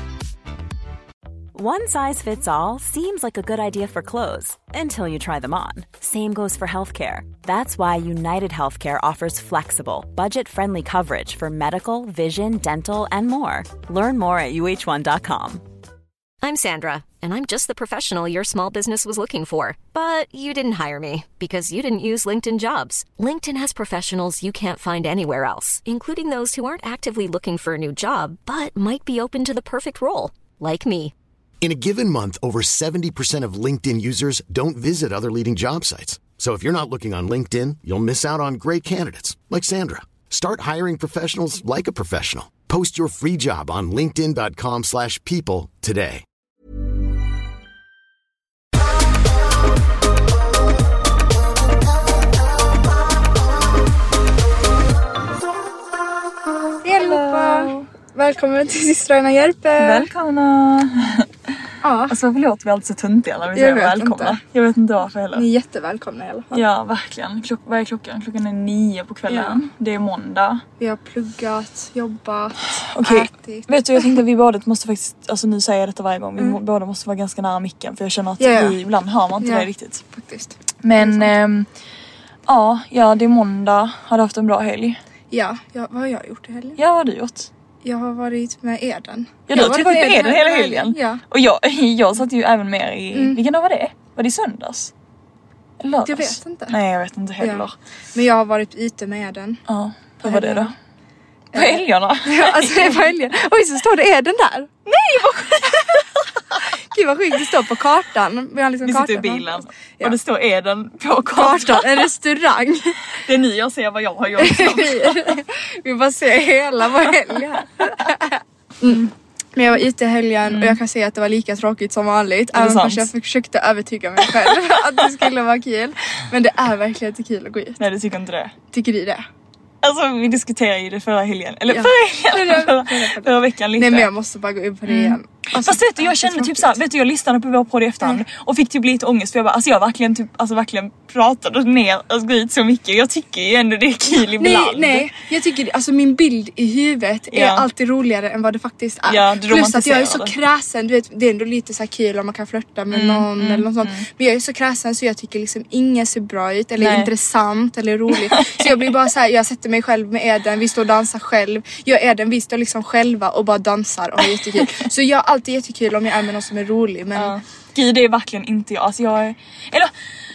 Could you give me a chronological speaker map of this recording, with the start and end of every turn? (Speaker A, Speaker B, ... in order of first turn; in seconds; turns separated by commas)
Speaker A: 1.5-15.6, Speaker B: 16.4-31.1, Speaker C: 31.6-46.2, Speaker D: 56.8-60.1, Speaker E: 57.0-57.9, Speaker E: 59.8-61.3, Speaker D: 61.8-62.1, Speaker E: 62.1-65.5, Speaker D: 63.5-64.4, Speaker D: 65.3-66.6, Speaker E: 66.5-70.6, Speaker D: 69.3-69.6, Speaker D: 70.8-74.1, Speaker E: 72.7-80.0, Speaker D: 78.4-78.8, Speaker D: 79.4-81.3, Speaker E: 80.8-81.7, Speaker E: 82.5-85.0, Speaker D: 85.3-86.8, Speaker E: 86.8-87.5, Speaker D: 87.8-91.2, Speaker E: 89.5-94.9, Speaker D: 93.1-93.4, Speaker E: 95.8-97.7, Speaker D: 96.0-96.8, Speaker D: 97.4-99.6, Speaker E: 99.7-100.7, Speaker D: 100.2-100.7, Speaker D: 101.5-104.7, Speaker E: 101.5-103.1, Speaker E: 104.9-106.0, Speaker D: 105.6-106.1, Speaker D: 106.9-110.2, Speaker E: 108.8-112.1, Speaker D: 111.3-113.0, Speaker E: 113.2-115.4, Speaker D: 114.4-127.8, Speaker E: 120.5-120.8, Speaker E: 122.5-123.1, Speaker E: 127.8-128.5, Speaker D: 128.7-129.3, Speaker E: 129.8-134.1, Speaker D: 131.7-136.8, Speaker E: 134.9-145.1, Speaker D: 144.2-167.4, Speaker E: 147.3-147.7, Speaker E: 149.1-150.3, Speaker E: 152.9-154.1, Speaker E: 156.8-157.1, Speaker E: 158.3-158.7, Speaker E: 164.3-164.7, Speaker E: 167.2-169.9